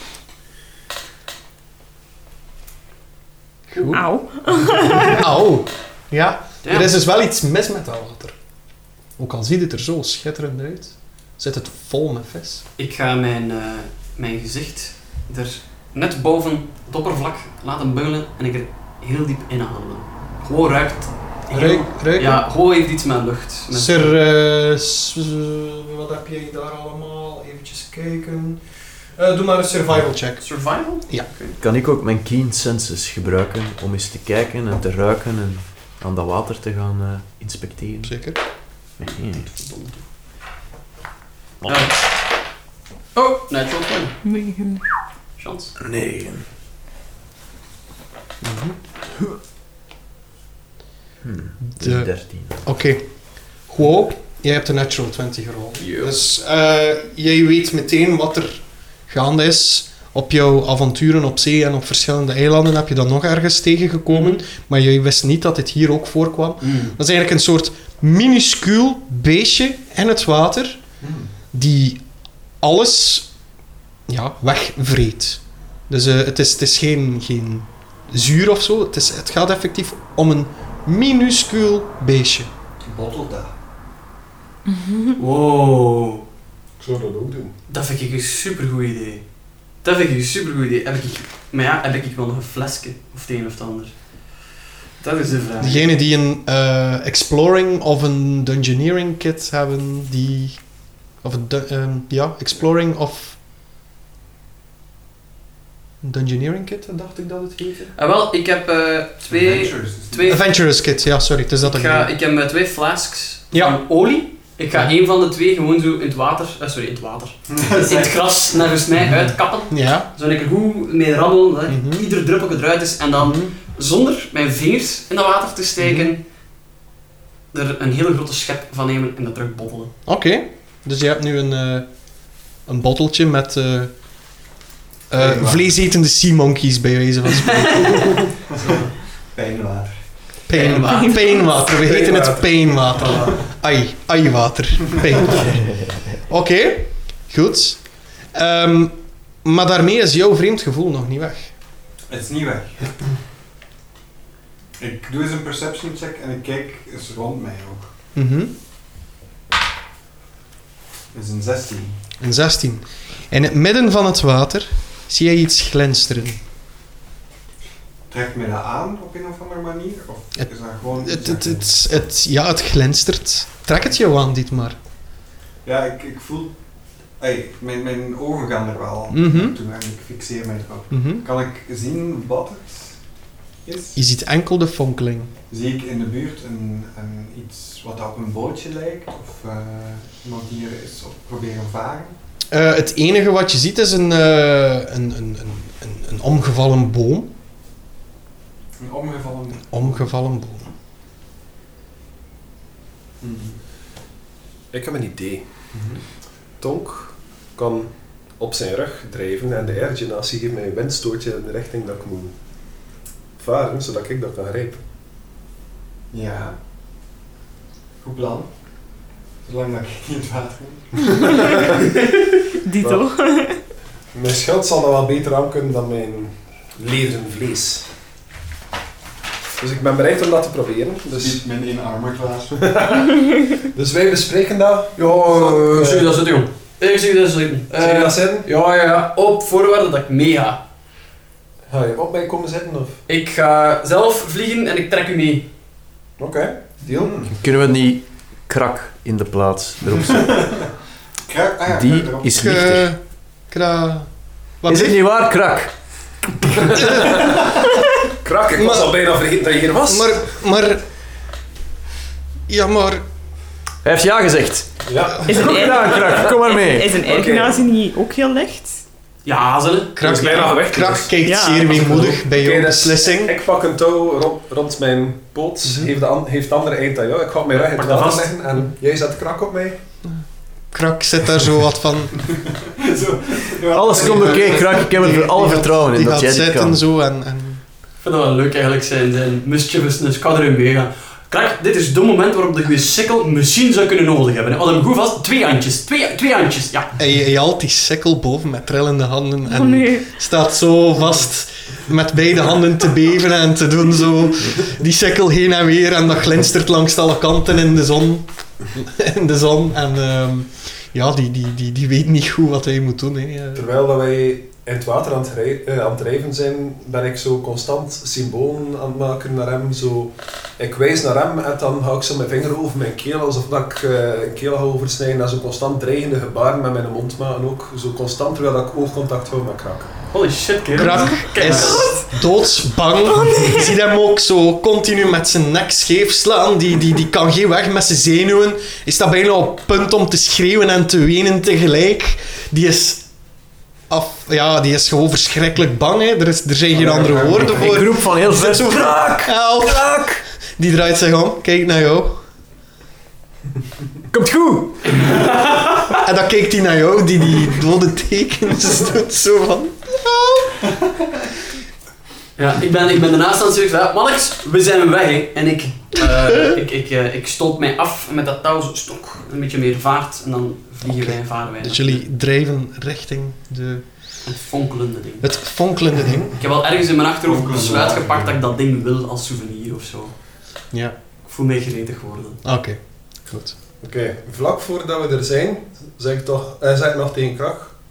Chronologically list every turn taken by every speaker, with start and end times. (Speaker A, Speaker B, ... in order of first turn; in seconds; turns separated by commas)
Speaker A: 3.7-4.0, Speaker B: 3.8-5.2, Speaker A: 5.0-8.3, Speaker C: 6.6-6.9, Speaker A: 9.2-12.6, Speaker C: 12.8-24.1, Speaker A: 21.5-22.4, Speaker A: 23.7-28.6, Speaker A: 29.2-30.4, Speaker C: 30.4-31.6, Speaker D: 31.6-38.2, Speaker A: 38.0-38.4, Speaker D: 39.0-39.5, Speaker C: 39.4-40.0, Speaker C: 41.7-42.0, Speaker C: 43.1-44.1, Speaker B: 44.2-44.8, Speaker C: 45.4-45.7, Speaker D: 45.8-46.5, Speaker A: 48.4-48.8, Speaker D: 51.2-52.6, Speaker A: 51.6-70.8, Speaker D: 55.8-56.2, Speaker C: 66.6-66.9, Speaker E: 71.0-71.3, Speaker A: 71.5-72.0, Speaker A: 72.6-73.3, Speaker A: 74.1-82.5, Speaker E: 82.8-83.5, Speaker B: 84.7-85.1, Speaker C: 85.2-86.2, Speaker F: 86.8-87.5, Speaker C: 87.7-89.2, Speaker C: 89.8-93.9, Speaker C: 95.0-95.9, Speaker A: 95.6-100.6, Speaker A: 101.2-103.4, Speaker A: 106.0-107.9, Speaker C: 108.0-110.4, Speaker E: 109.3-110.4, Speaker A: 110.2-112.1, Speaker C: 111.6-126.2, Speaker A: 113.5-113.8, Speaker E: 117.5-118.1, Speaker A: 119.2-120.1, Speaker A: 121.7-122.1, Speaker A: 123.2-123.5, Speaker A: 125.8-126.1, Speaker C: 127.5-129.9, Speaker A: 130.1-131.9, Speaker A: 132.7-133.9, Speaker A: 135.1-138.1, Speaker E: 135.2-135.7, Speaker C: 137.5-138.9, Speaker E: 139.3-139.9, Speaker A: 140.5-145.7, Speaker C: 140.5-141.2, Speaker B: 140.8-141.7, Speaker F: 141.8-143.2, Speaker C: 142.9-143.4, Speaker A: 146.2-151.5, Speaker E: 152.1-152.9, Speaker E: 154.8-157.9, Speaker A: 158.2-158.5, Speaker E: 161.1-162.0, Speaker A: 162.2-166.4, Speaker E: 168.1-171.7, Speaker A: 170.4-174.8, Speaker E: 175.6-176.6, Speaker E: 177.2-183.0, Speaker A: 179.1-179.6, Speaker A: 180.9-181.3, Speaker E: 183.7-184.0, Speaker A: 183.9-185.3, Speaker E: 185.5-192.2, Speaker A: 192.5-197.3, Speaker E: 198.8-200.1, Speaker A: 199.7-200.7, Speaker E: 203.2-203.6, Speaker F: 204.7-205.4, Speaker E: 205.7-206.0, Speaker F: 206.6-212.3, Speaker F: 213.4-214.8, Speaker E: 216.1-216.6, Speaker E: 218.0-218.5, Speaker E: 219.4-221.7, Speaker F: 221.2-221.9, Speaker B: 222.7-223.6, Speaker F: 224.1-227.8, Speaker F: 229.6-231.4, Speaker E: 231.1-232.7, Speaker F: 232.6-236.1, Speaker C: 235.0-240.6, Speaker F: 237.8-238.4, Speaker F: 241.7-242.9, Speaker C: 243.1-245.5, Speaker F: 246.2-247.3, Speaker E: 246.9-247.3, Speaker D: 247.4-250.6, Speaker E: 250.0-250.6, Speaker E: 251.3-252.5, Speaker D: 251.7-252.9, Speaker A: 252.3-254.1, Speaker A: 254.6-255.0, Speaker D: 254.7-255.7, Speaker F: 256.7-257.6, Speaker A: 256.8-257.3, Speaker F: 258.2-260.3, Speaker A: 258.6-259.0, Speaker A: 259.9-260.8, Speaker A: 262.5-263.0, Speaker D: 263.8-264.7, Speaker F: 264.9-266.3, Speaker D: 265.3-266.9, Speaker B: 265.3-268.8, Speaker F: 267.0-267.6, Speaker C: 269.2-270.6, Speaker A: 269.9-273.4, Speaker F: 270.0-271.1, Speaker B: 271.2-272.2, Speaker F: 271.7-279.8, Speaker A: 275.6-275.9, Speaker C: 277.5-278.4, Speaker A: 280.0-282.2, Speaker E: 282.3-284.8, Speaker D: 283.7-286.8, Speaker A: 283.9-287.6, Speaker C: 288.0-296.9, Speaker A: 297.0-313.6, Speaker B: 299.4-300.1, Speaker F: 313.6-329.9, Speaker C: 330.1-332.1, Speaker A: 330.8-343.1, Speaker A: 343.9-350.0, Speaker D: 346.8-350.2, Speaker E: 346.9-347.5, Speaker A: 350.6-352.2, Speaker D: 354.1-354.8, Speaker C: 354.8-355.9, Speaker A: 355.9-360.5, Speaker C: 362.4-372.0, Speaker A: 370.8-374.1, Speaker C: 374.2-375.3, Speaker A: 375.2-376.3, Speaker C: 376.4-380.1, Speaker E: 377.2-378.4, Speaker C: 381.2-382.4, Speaker A: 382.4-383.6, Speaker F: 383.8-387.8